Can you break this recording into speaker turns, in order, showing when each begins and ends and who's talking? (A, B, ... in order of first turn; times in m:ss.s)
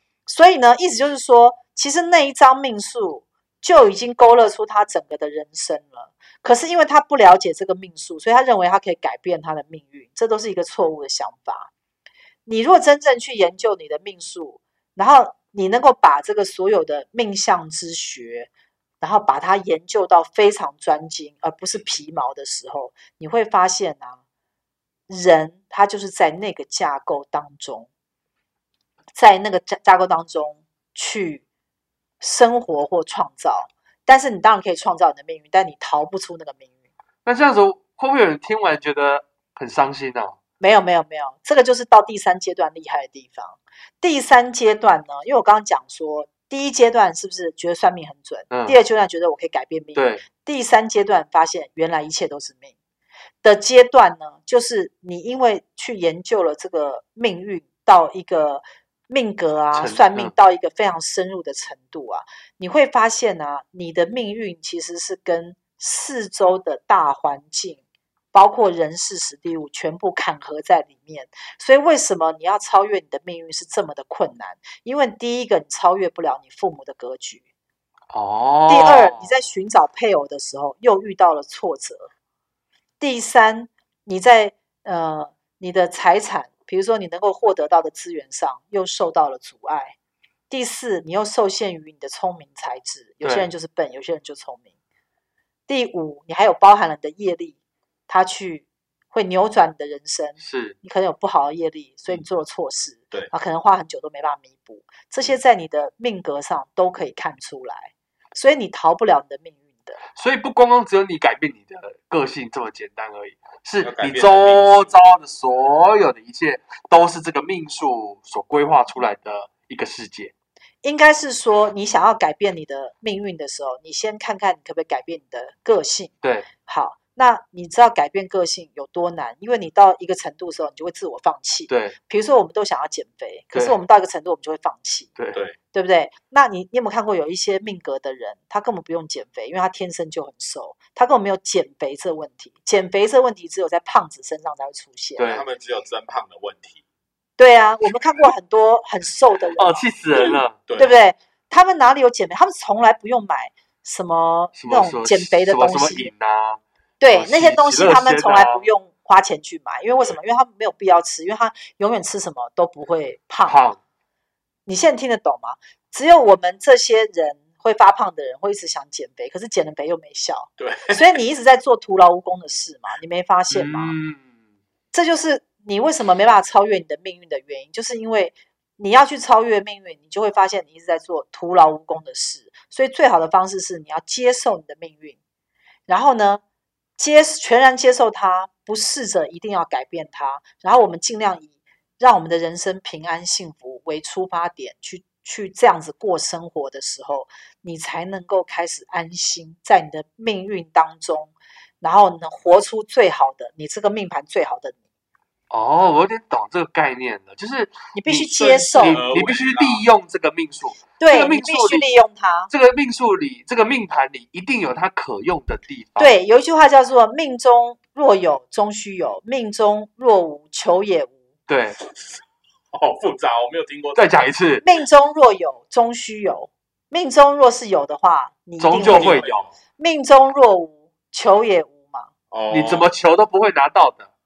0:00.3-0:11.7 A
0:12.5-0:18.5 A
0:19.0-0:24.2 A
0:25.1-0:27.9 A
0:29.2-0:31.4 A
0:32.2-0:36.7 A
0:37.2-0:40.4 B
0:40.6-0:52.7 A
0:48.5-0:48.8 B
0:50.0-0:50.2 B
0:53.4-1:07.8 A
0:59.7-1:00.3 B
1:08.3-1:17.4 A
1:18.1-1:19.3 B
1:18.7-1:22.1 A
1:23.0-1:30.0 A
1:30.5-1:34.7 A
1:33.2-1:33.5 B
1:35.7-1:50.0 A
1:40.4-1:40.8 B
1:50.2-2:00.3 B
1:53.8-1:55.0 C
2:00.8-2:06.1 A
2:06.2-2:06.5 B
2:06.6-2:15.1 A
2:11.7-2:12.0 B
2:13.5-2:13.8 B
2:15.7-2:25.3 A
2:25.2-2:25.5 B
2:25.2-2:26.8 C
2:27.4-2:29.9 A
2:29.6-2:30.6 B
2:30.7-2:31.0 C
2:30.8-2:36.1 A
2:34.6-2:38.7 B
2:37.0-2:43.6 A
2:43.5-2:43.8 B
2:44.7-2:54.0 A
2:50.6-2:51.0 C
2:53.5-2:54.3 B
2:54.9-3:05.2 A
3:05.9-3:06.4 A
3:07.0-3:24.8 A
3:25.5-3:31.9 B
3:27.9-3:29.2 A
3:28.4-3:29.8 C
3:31.0-3:32.5 A
3:32.5-3:36.2 B
3:36.0-3:41.2 A
3:41.5-3:41.8 B
3:42.7-3:44.3 C
3:44.0-3:44.6 B
3:44.6-3:49.3 A
3:48.6-3:49.5 B
3:48.8-3:49.5 C
3:49.8-3:52.1 A
3:52.3-3:52.9 C
3:52.5-3:54.1 B